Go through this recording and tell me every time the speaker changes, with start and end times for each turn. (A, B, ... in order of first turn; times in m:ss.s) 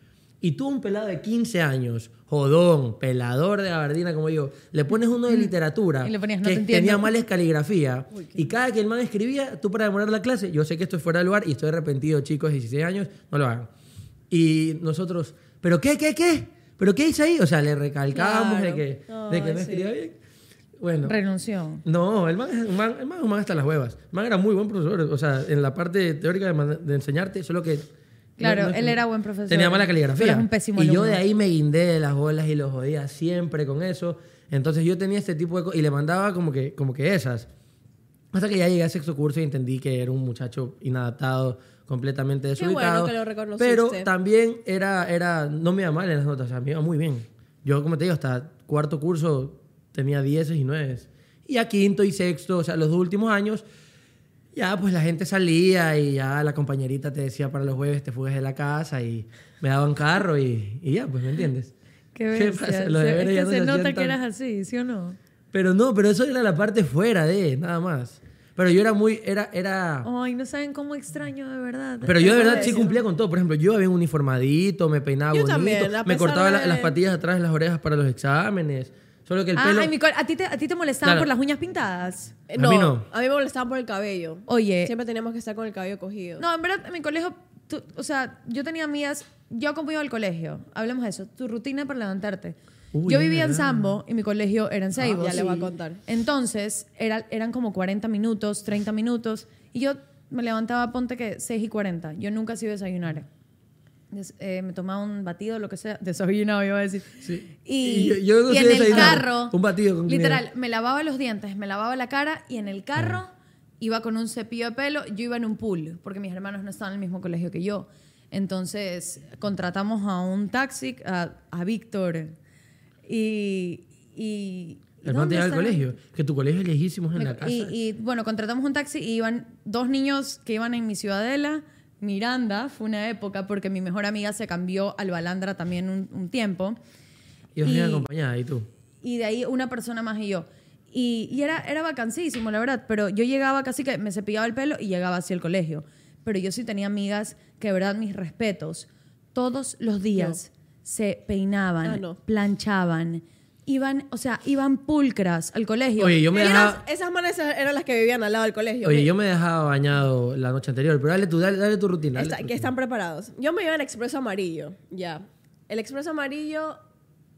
0:00.4-0:13.7 A
0:06.0-0:07.2 B
0:08.1-0:08.5 C
0:14.3-0:20.2 A
0:18.1-0:19.9 C
0:20.8-0:21.2 A
0:21.0-0:21.8 B
0:21.8-0:27.9 A
0:28.4-0:31.2 B
0:28.4-0:37.5 A
0:38.3-0:53.7 A
0:42.6-0:44.1 C
0:54.5-1:01.7 A
1:02.2-1:05.2 B
1:02.3-1:04.2 A
1:05.5-1:10.1 A
1:10.0-1:13.0 B
1:12.0-1:19.9 A
1:12.2-1:12.8 C
1:15.3-1:17.0 C
1:19.6-1:22.4 B
1:21.0-1:21.3 A
1:22.5-1:26.4 C
1:22.6-1:23.1 A
1:24.5-1:24.9 B
1:26.4-1:43.3 B
1:32.9-1:34.0 A
1:35.0-1:35.5 A
1:35.2-1:36.0 C
1:44.1-2:02.4 B
1:47.2-1:50.4 A
2:03.1-2:05.8 B
2:05.0-2:07.8 A
2:07.2-2:16.8 B
2:17.6-2:18.7 A
2:17.6-2:18.1 B
2:19.0-2:36.3 B
2:31.8-2:32.2 C
2:36.0-2:36.8 A
2:36.3-2:39.1 C
2:38.8-2:42.7 A
2:42.2-2:46.8 C